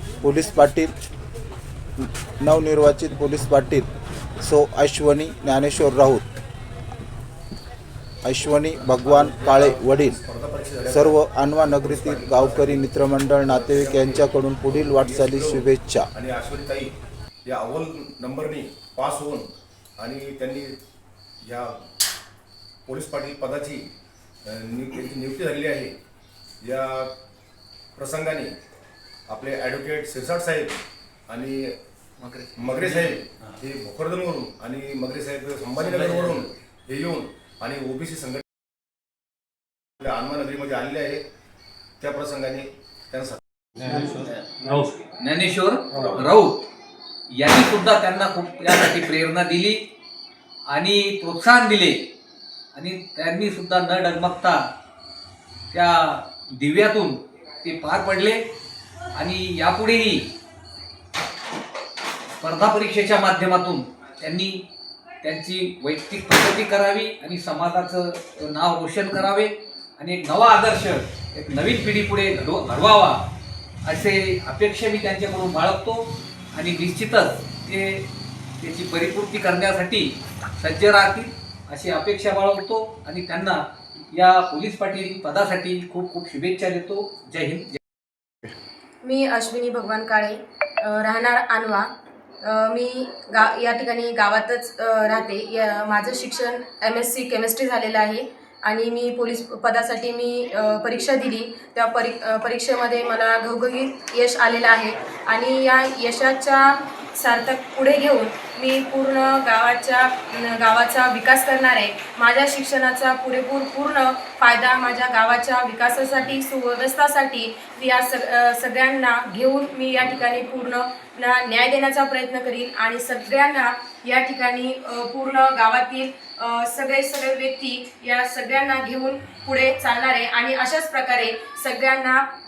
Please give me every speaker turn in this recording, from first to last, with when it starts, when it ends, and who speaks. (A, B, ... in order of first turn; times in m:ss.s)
0:00.2-0:00.9 A
0:02.0-0:03.9 A
0:04.4-0:06.3 A
0:08.2-0:10.2 A
0:08.9-0:16.9 B
0:10.9-0:16.1 A
0:17.4-0:20.8 B
0:21.4-0:21.8 B
0:22.9-0:23.9 B
0:24.4-0:26.0 B
0:26.6-0:27.2 B
0:28.0-0:28.6 B
0:29.3-0:31.8 B
0:32.2-0:33.6 C
0:32.6-0:38.4 B
0:35.8-0:36.5 C
0:40.0-0:41.2 B
0:42.0-0:43.4 B
0:43.8-0:46.6 C
0:47.3-0:49.9 C
0:50.7-0:52.1 C
0:52.7-0:54.6 C
0:55.7-0:58.4 C
0:59.2-1:00.3 C
1:02.4-1:04.7 C
1:05.2-1:13.3 C
1:13.8-1:18.1 C
1:18.6-1:27.8 C
1:29.0-1:31.9 D
1:32.4-2:12.3 D